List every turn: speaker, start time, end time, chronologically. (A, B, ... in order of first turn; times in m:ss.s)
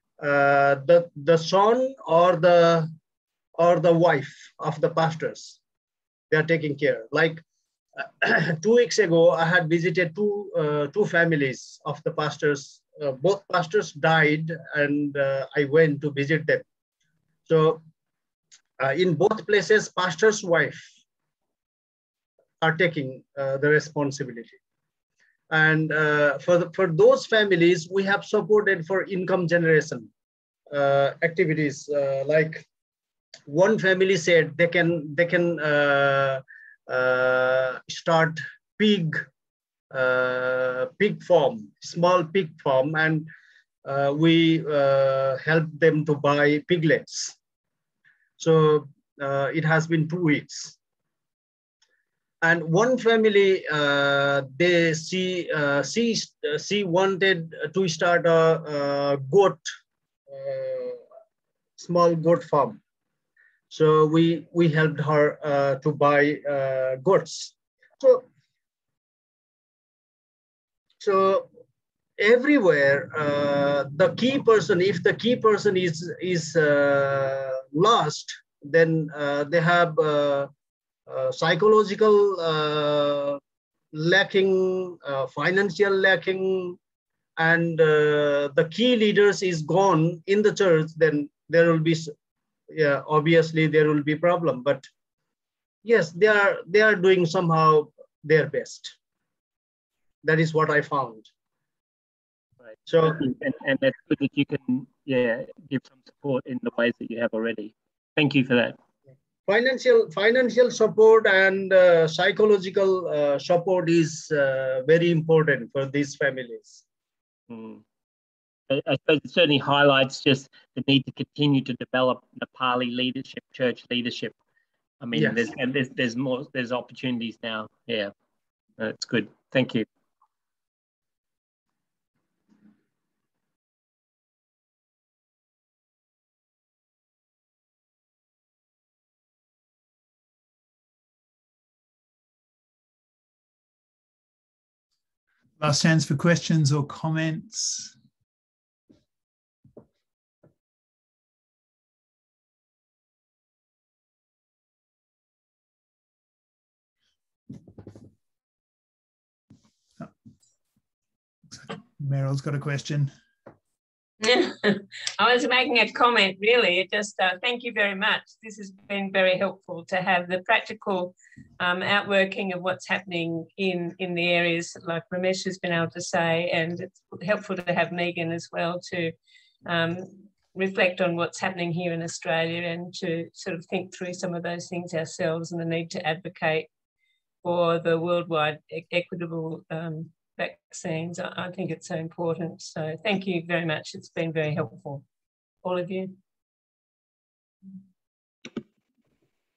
0:00.2-0:02.9 A
0:03.6-0:05.6 A
0:06.3-0:07.4 A
0:08.0-0:16.6 A
0:17.5-0:17.8 A
0:18.8-0:20.9 A
0:22.6-0:24.6 A
0:25.5-0:30.1 A
0:30.7-0:32.6 A
0:33.4-0:39.2 A
0:39.9-0:43.3 A
0:43.8-0:47.4 A
0:48.4-0:50.8 A
0:52.4-0:59.6 A
1:00.3-1:01.0 A
1:01.8-1:02.8 A
1:03.7-1:08.3 A
1:11.0-1:11.4 A
1:12.2-1:20.5 A
1:21.1-1:23.4 A
1:23.9-1:26.8 A
1:27.4-1:32.1 A
1:32.7-1:34.8 A
1:35.8-1:38.9 A
1:40.2-1:41.3 A
1:42.9-1:43.3 A
1:43.1-1:48.8 B
1:49.5-1:56.8 A
1:57.5-1:57.8 B
1:58.7-2:04.3 B
2:05.0-2:08.1 B
2:05.1-2:05.5 A
2:08.8-2:09.8 B
2:25.6-2:27.9 C
2:41.5-2:43.1 C
2:44.2-2:59.1 D
2:59.6-3:06.7 D
3:07.4-3:15.0 D
3:15.6-3:16.2 D